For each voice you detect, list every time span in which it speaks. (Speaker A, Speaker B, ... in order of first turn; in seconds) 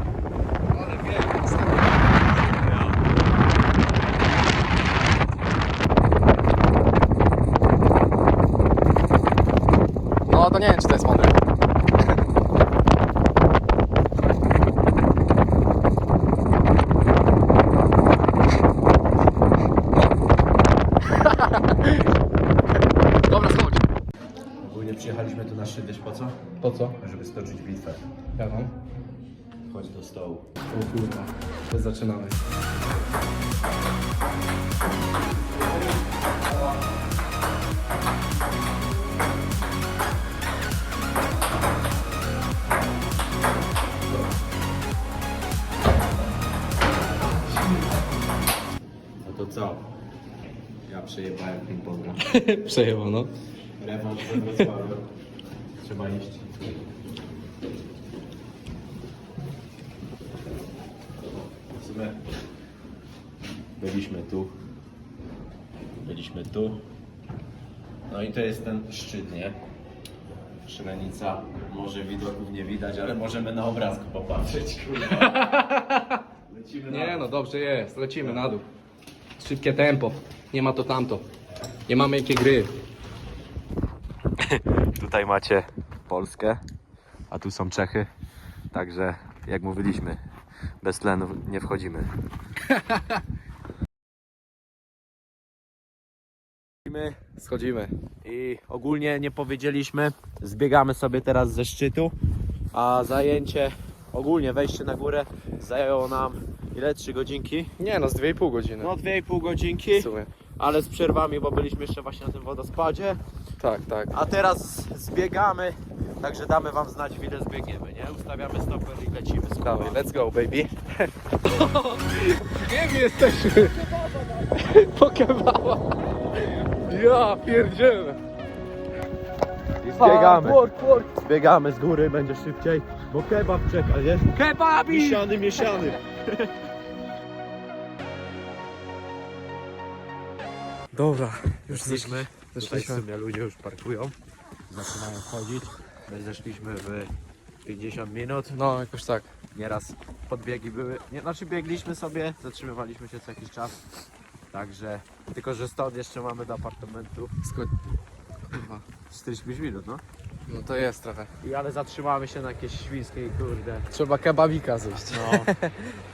Speaker A: 0.7-2.1, 10.3-11.4, 21.2-22.0, 23.3-23.8, 26.6-27.0, 28.4-28.7, 30.7-32.4, 52.2-53.3, 54.3-54.7, 75.0-76.1, 76.9-78.7, 79.4-81.3, 81.9-82.8, 97.4-97.9, 107.8-108.9, 109.9-110.3, 113.6-114.1, 119.6-123.8, 124.5-125.8, 126.4-128.2, 130.0-131.1, 134.3-135.3, 140.9-143.1, 148.5-149.3, 157.4-157.7, 158.5-158.8, 160.5-161.3, 163.9-165.5
Speaker B: 2.3-3.2, 24.6-26.4, 27.0-28.0, 29.7-30.5, 49.2-49.9, 50.9-52.2, 53.8-55.1, 55.8-56.5, 61.8-62.2, 63.8-64.6, 66.0-66.9, 68.1-69.6, 70.7-75.4, 76.5-77.3, 84.4-86.6, 87.3-88.1, 88.7-90.2, 90.8-92.1, 96.9-97.2, 98.2-102.2, 102.7-107.7, 108.8-113.2, 114.1-120.0, 123.6-124.6, 129.8-136.5, 141.7-144.2, 144.7-147.1, 147.6-148.6, 149.5-153.8, 154.5-157.3, 159.1-160.0, 161.4-163.9, 165.1-165.6